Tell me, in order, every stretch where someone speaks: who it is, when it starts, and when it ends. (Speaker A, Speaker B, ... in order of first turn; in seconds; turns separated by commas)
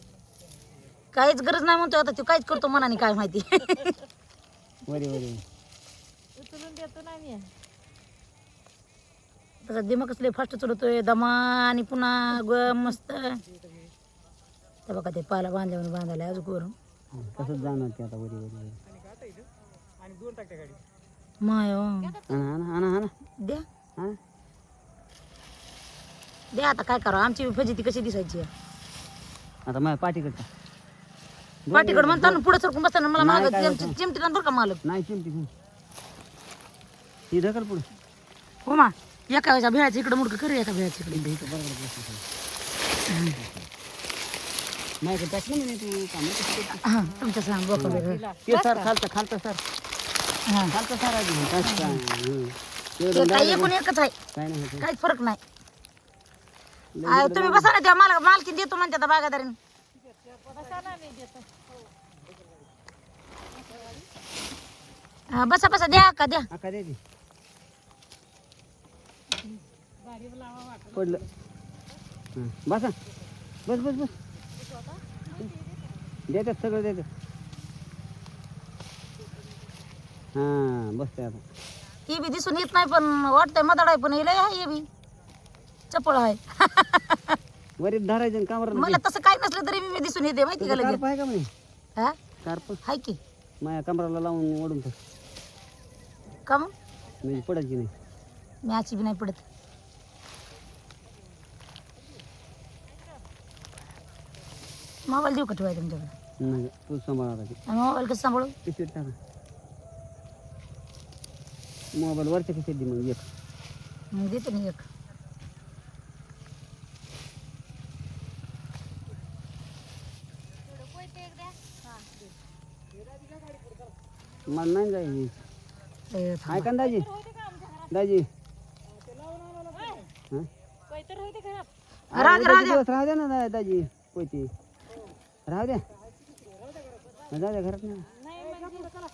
Speaker A: 1.1-4.0, Speaker B: 4.9-5.4, Speaker C: 6.3-7.5, Speaker A: 9.7-13.4, Speaker A: 14.9-16.8, Speaker B: 17.1-18.8, Speaker D: 18.9-19.5, Speaker D: 20.0-20.8, Speaker A: 21.4-22.2, Speaker C: 22.1-22.4, Speaker B: 22.3-23.1, Speaker A: 26.5-28.5, Speaker B: 29.7-30.5, Speaker B: 31.7-32.4, Speaker A: 31.7-34.8, Speaker B: 33.2-34.0, Speaker B: 34.8-35.5, Speaker B: 37.3-37.9, Speaker A: 38.7-41.3, Speaker B: 41.1-42.2, Speaker A: 43.1-43.4, Speaker B: 43.3-43.7, Speaker B: 45.0-46.9, Speaker A: 46.9-48.2, Speaker B: 47.8-49.6, Speaker C: 47.8-48.9, Speaker A: 50.5-50.7, Speaker B: 50.7-53.8, Speaker A: 51.6-52.0, Speaker A: 53.1-54.1, Speaker B: 54.3-54.9, Speaker A: 54.8-55.4, Speaker B: 57.0-57.7, Speaker A: 57.0-59.6, Speaker C: 60.5-61.5, Speaker A: 65.3-66.5, Speaker B: 66.5-67.0, Speaker C: 70.0-70.9, Speaker B: 70.9-71.3, Speaker B: 72.3-73.0, Speaker B: 73.7-74.2, Speaker C: 74.6-76.2, Speaker B: 76.3-77.1, Speaker B: 80.3-81.4, Speaker A: 82.1-84.9, Speaker A: 85.9-87.4, Speaker B: 87.8-89.0, Speaker A: 88.7-91.0, Speaker B: 90.6-91.5, Speaker B: 92.4-92.8, Speaker A: 92.8-93.2, Speaker B: 93.6-95.0, Speaker A: 96.5-96.7, Speaker B: 97.2-97.9, Speaker A: 98.6-99.4, Speaker A: 105.1-106.1, Speaker B: 106.4-107.6, Speaker A: 107.7-108.5, Speaker B: 108.7-109.2, Speaker B: 111.9-113.3, Speaker A: 114.1-114.9, Speaker C: 120.7-122.1, Speaker B: 124.5-125.4, Speaker A: 126.1-126.7, Speaker B: 126.5-127.1, Speaker C: 126.8-127.9, Speaker B: 127.9-128.3, Speaker D: 129.2-130.0, Speaker C: 129.7-130.1, Speaker C: 130.9-131.7, Speaker B: 132.1-134.5, Speaker A: 132.1-132.8, Speaker B: 135.5-135.8, Speaker B: 137.3-138.1, Speaker C: 138.2-138.9